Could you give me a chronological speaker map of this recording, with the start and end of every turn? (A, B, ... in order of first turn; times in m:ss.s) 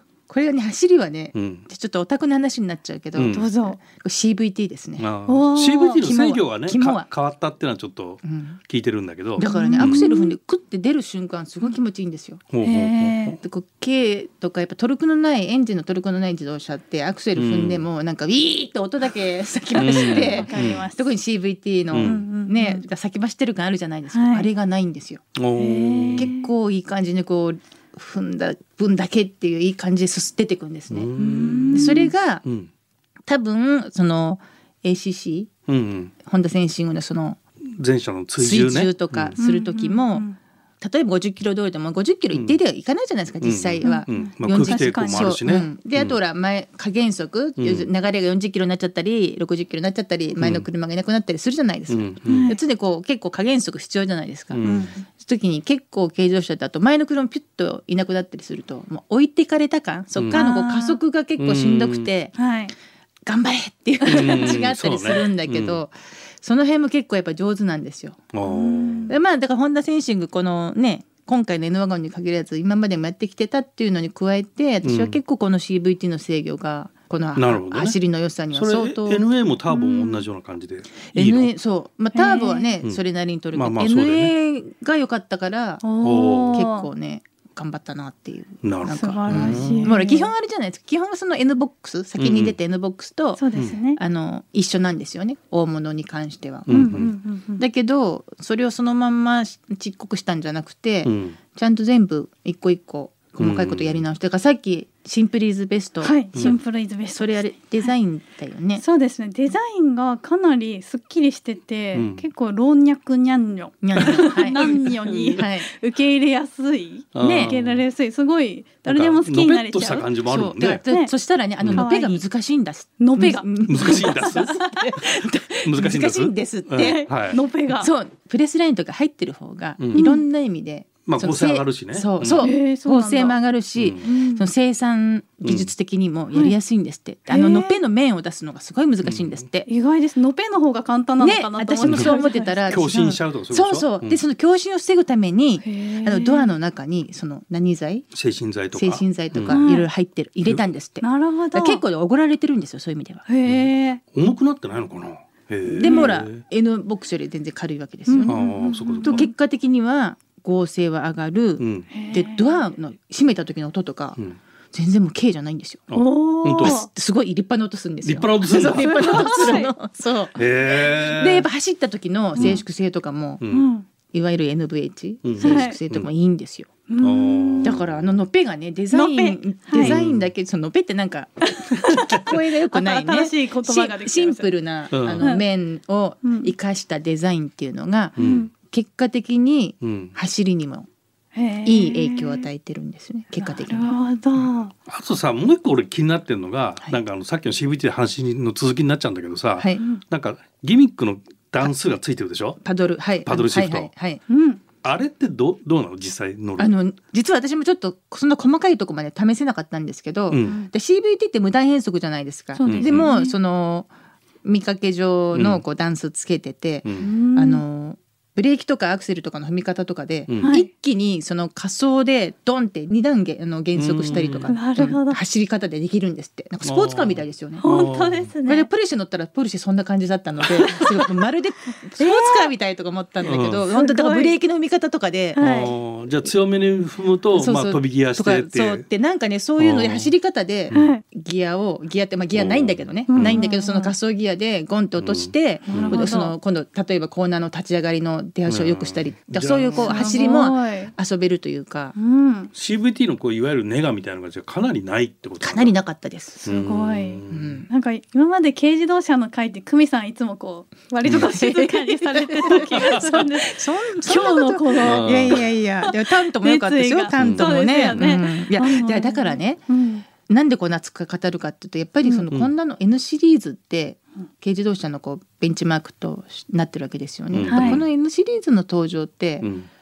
0:00.3-0:05.1 A
0:01.4-0:01.6 B
0:03.2-0:03.5 B
0:03.2-0:03.8 C
0:05.0-0:10.0 B
0:05.3-0:06.0 C
0:06.0-0:07.1 A
0:08.2-0:08.6 A
0:09.4-0:12.4 A
0:09.4-0:10.4 C
0:12.5-0:13.4 B
0:12.6-0:13.4 C
0:13.4-0:25.2 A
0:17.4-0:17.8 B
0:19.8-0:20.8 B
0:19.8-0:21.1 C
0:21.9-0:22.2 B
0:22.0-0:22.8 C
0:24.1-0:24.5 C
0:25.4-0:26.3 B
0:25.6-0:26.5 C
0:26.2-0:31.1 A
0:30.9-0:32.7 B
0:31.2-0:32.1 C
0:31.7-0:32.4 A
0:33.3-0:35.5 A
0:35.7-0:36.1 B
0:36.2-0:37.4 A
0:37.7-0:39.4 B
0:38.4-0:40.3 A
0:39.4-0:40.4 C
0:40.8-1:02.4 A
0:42.3-0:42.6 B
0:43.4-0:46.2 B
0:43.8-0:45.4 C
0:47.6-0:47.9 B
0:50.4-0:50.6 B
0:51.9-0:52.5 B
0:52.3-0:52.6 C
0:54.5-0:54.9 B
0:54.6-0:55.0 C
1:00.2-1:00.4 B
1:00.3-1:01.0 C
1:01.4-1:02.1 B
1:02.4-1:02.7 C
1:03.3-1:08.2 A
1:04.0-1:04.6 C
1:04.1-1:05.8 B
1:08.3-1:09.1 B
1:08.5-1:09.2 C
1:09.1-1:19.2 A
1:14.8-1:15.2 B
1:17.4-1:18.0 B
1:18.5-1:21.5 B
1:19.7-1:20.2 C
1:21.1-1:26.0 A
1:22.1-1:22.7 C
1:23.5-1:24.3 B
1:25.8-1:26.9 C
1:26.0-1:26.6 B
1:26.5-1:37.1 A
1:28.6-1:30.0 B
1:28.9-1:30.3 C
1:32.2-1:32.6 B
1:33.4-1:34.0 C
1:36.7-1:37.1 B
1:36.7-1:37.6 C
1:37.6-1:46.6 A
1:41.0-1:41.4 B
1:43.4-1:44.0 B
1:46.0-1:47.6 C
1:47.1-1:48.8 A
1:48.8-2:00.1 C
1:51.9-1:52.2 B
1:53.8-1:55.7 A
1:54.0-1:55.4 B
1:57.1-1:57.8 B
1:57.2-1:57.5 A
1:58.9-2:00.8 B
2:00.3-2:07.1 A
2:00.8-2:01.1 C
2:01.6-2:01.9 B
2:01.7-2:02.2 C
2:03.0-2:04.8 C
2:03.7-2:05.1 B
2:05.6-2:07.4 B
2:06.8-2:07.9 C
2:07.8-2:19.7 A
2:09.8-2:10.0 B
2:09.9-2:10.2 C
2:11.1-2:12.5 B
2:12.4-2:13.4 C
2:13.8-2:14.0 B
2:14.0-2:14.4 C
2:15.4-2:15.7 B
2:17.3-2:17.8 C
2:19.0-2:19.4 B
2:19.7-2:22.8 C
2:21.2-2:28.1 A
2:21.9-2:22.1 B
2:22.7-2:24.2 B
2:25.6-2:26.5 C
2:28.1-2:29.6 B
2:28.7-2:33.3 A
2:29.5-2:29.9 C
2:31.0-2:31.8 C
2:33.3-2:34.0 C
2:33.5-2:36.4 B
2:35.7-2:38.4 A
2:35.8-2:36.1 C
2:38.1-2:39.3 C
2:38.3-2:39.2 B
2:39.0-2:44.2 A
2:41.6-2:41.9 B
2:41.9-2:42.7 C
2:44.7-2:45.9 A
2:45.9-2:46.8 B
2:45.9-2:46.9 C
2:46.6-2:53.4 A
2:48.0-2:49.6 B
2:48.6-2:49.7 C
2:50.4-2:51.5 B
2:52.4-2:52.6 C
2:52.4-2:52.6 B
2:53.4-2:53.7 B
2:53.5-2:53.9 C
2:54.1-2:56.7 A
2:55.2-2:56.1 B
2:55.4-2:55.8 C
2:56.9-2:57.7 C
2:57.0-2:58.2 B
2:57.6-3:10.9 A
2:58.9-3:00.0 C
2:59.8-3:00.3 B
3:01.7-3:04.5 C
3:04.9-3:05.3 B
3:06.2-3:06.5 C
3:08.2-3:08.5 C
3:08.2-3:08.5 B
3:09.8-3:10.1 B
3:11.3-3:12.5 C
3:11.6-3:14.0 A
3:13.4-3:14.7 C
3:14.9-3:22.6 B
3:19.6-3:19.8 A
3:22.6-3:24.2 A
3:23.3-3:23.9 B
3:24.3-3:24.6 C
3:24.8-3:26.8 B
3:26.6-3:33.9 A
3:30.3-3:30.6 B
3:30.4-3:30.7 C
3:32.6-3:33.4 C
3:32.6-3:33.1 B
3:34.4-3:47.7 A
3:35.3-3:35.6 B
3:36.8-3:37.1 B
3:37.0-3:37.6 C
3:40.3-3:40.5 B
3:40.4-3:40.7 C
3:43.8-3:44.6 B
3:44.5-3:45.2 C
3:46.6-3:48.3 B
3:47.6-3:48.7 C
3:48.4-3:55.7 A
3:50.4-3:50.8 B
3:52.0-3:52.5 C
3:53.2-3:53.7 B
3:53.7-3:54.4 C
3:55.4-3:55.7 C
3:55.4-3:58.8 B
3:57.3-4:12.0 A
3:59.6-4:00.1 B
4:00.7-4:01.0 C
4:02.3-4:03.4 B
4:03.1-4:03.9 C
4:05.0-4:06.1 B
4:05.7-4:06.3 C
4:08.5-4:10.2 B
4:09.8-4:10.9 C
4:12.0-4:12.5 C
4:12.5-4:15.8 B
4:15.4-4:16.4 A
4:16.4-4:30.0 C
4:16.4-4:17.7 B
4:17.3-4:17.7 A
4:21.1-4:39.5 A
4:22.5-4:23.1 B
4:24.8-4:25.5 B
4:27.2-4:28.2 B
4:37.3-4:37.9 B
4:37.5-4:37.8 C
4:39.4-4:39.7 B